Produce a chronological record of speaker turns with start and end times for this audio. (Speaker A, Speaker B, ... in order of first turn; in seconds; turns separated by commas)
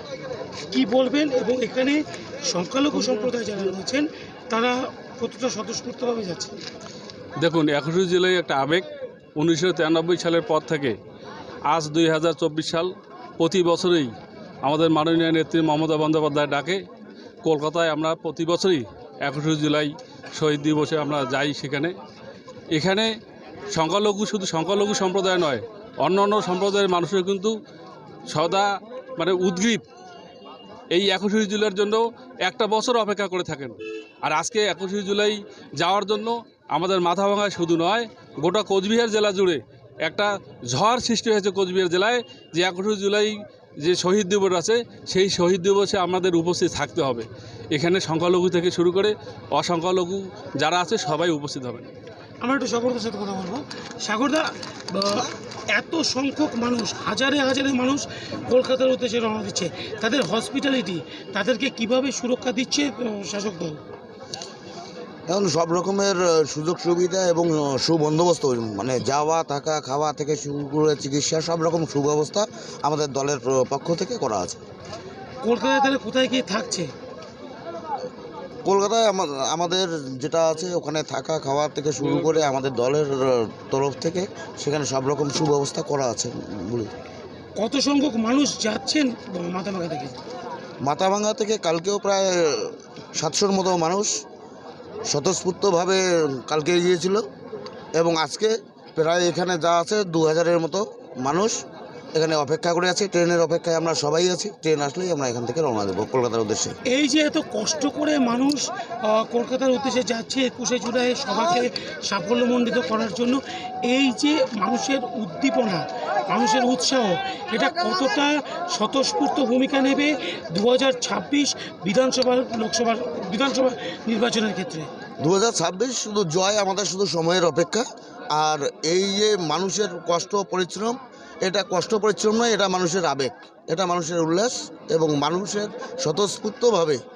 Speaker A: 0.7-6.6, Speaker B: 7.4-8.8, Speaker B: 9.4-11.0, Speaker B: 11.7-16.8, Speaker B: 17.4-21.9, Speaker B: 22.7-23.1, Speaker B: 23.7-27.5, Speaker B: 28.3-29.8, Speaker B: 30.9-51.9, Speaker A: 52.4-63.8, Speaker C: 65.3-74.6, Speaker A: 75.4-76.9, Speaker C: 78.7-86.9, Speaker A: 87.6-90.2, Speaker C: 90.8-94.1, Speaker C: 95.1-97.2, Speaker C: 98.0-101.6, Speaker C: 102.1-106.8, Speaker A: 106.9-124.8, Speaker C: 125.2-137.0